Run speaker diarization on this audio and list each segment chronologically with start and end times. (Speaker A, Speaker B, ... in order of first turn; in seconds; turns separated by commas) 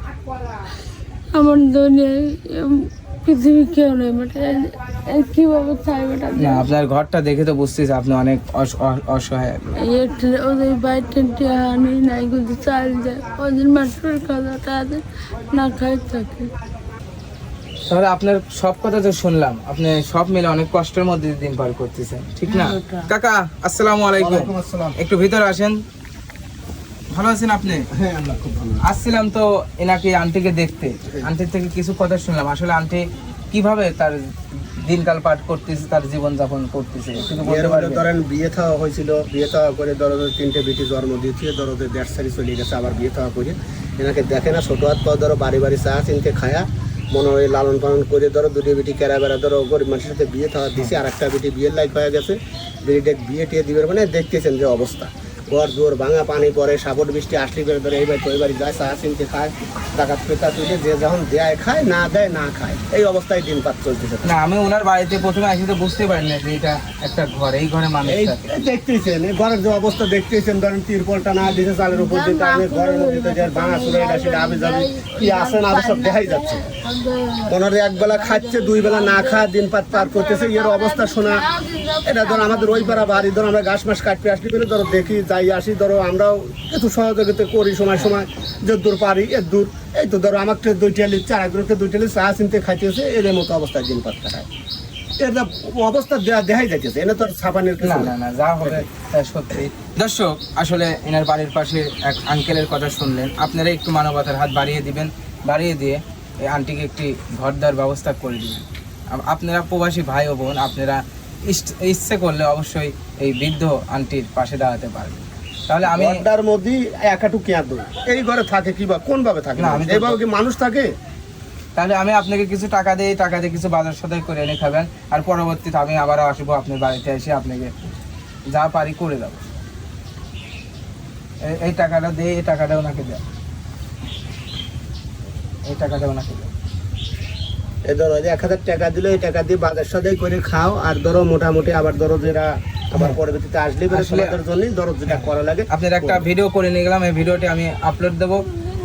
Speaker A: 1.3-6.7, Speaker B: 6.4-9.8, Speaker A: 9.8-16.5, Speaker B: 17.9-25.8, Speaker A: 22.5-23.1, Speaker C: 24.2-25.0, Speaker B: 27.1-27.9, Speaker C: 27.8-28.9, Speaker B: 28.8-38.0, Speaker C: 37.2-64.3, Speaker B: 64.2-68.5, Speaker C: 68.1-76.6, Speaker A: 71.9-83.3, Speaker C: 77.5-81.5, Speaker C: 82.0-94.5, Speaker C: 95.2-98.9, Speaker B: 97.8-116.2, Speaker C: 115.9-120.9, Speaker B: 119.6-120.2, Speaker B: 121.8-127.7, Speaker B: 128.5-129.5, Speaker B: 131.4-133.2, Speaker B: 135.7-136.5, Speaker C: 137.8-146.3, Speaker B: 143.9-144.4, Speaker B: 145.1-148.5